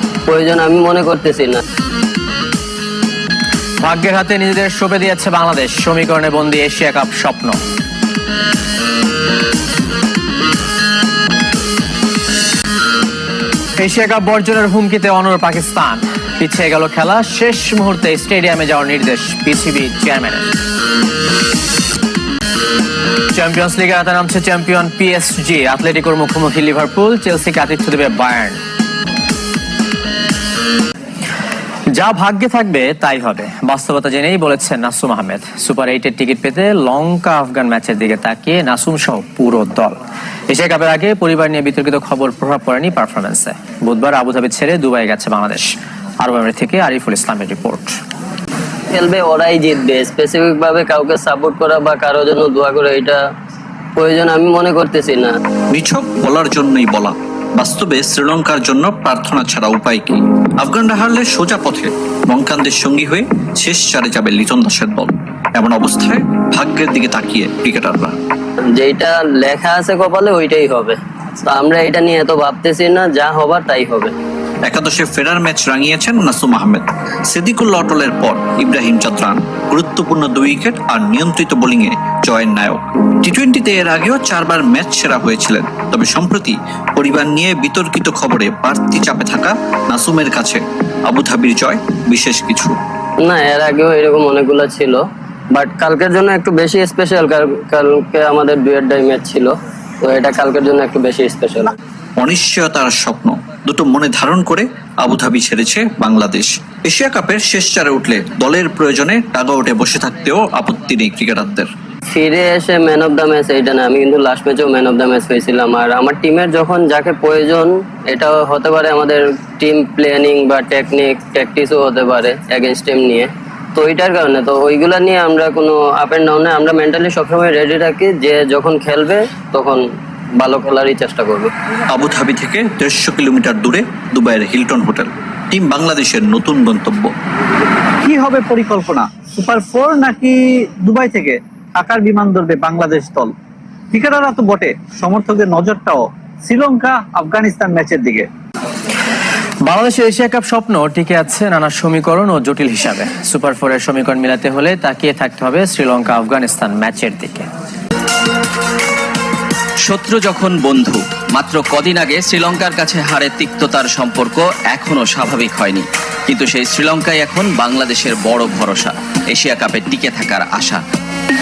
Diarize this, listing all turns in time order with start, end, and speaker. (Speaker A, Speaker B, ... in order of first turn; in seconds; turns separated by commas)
Speaker A: 0.3-1.6, Speaker B: 3.8-7.6, Speaker B: 13.8-20.5, Speaker B: 23.3-28.6, Speaker B: 31.9-39.9, Speaker B: 40.5-48.0, Speaker A: 49.0-53.1, Speaker A: 54.0-55.3, Speaker C: 55.7-68.2, Speaker A: 68.8-71.0, Speaker A: 71.5-74.1, Speaker C: 74.6-92.8, Speaker A: 93.3-95.0, Speaker A: 95.6-99.5, Speaker A: 100.1-101.6, Speaker C: 102.2-111.7, Speaker A: 112.3-117.7, Speaker A: 118.2-123.3, Speaker A: 123.8-129.8, Speaker A: 130.4-131.5, Speaker C: 131.9-137.1, Speaker D: 138.0-143.3, Speaker D: 143.9-148.3, Speaker B: 149.6-157.5, Speaker E: 159.9-170.8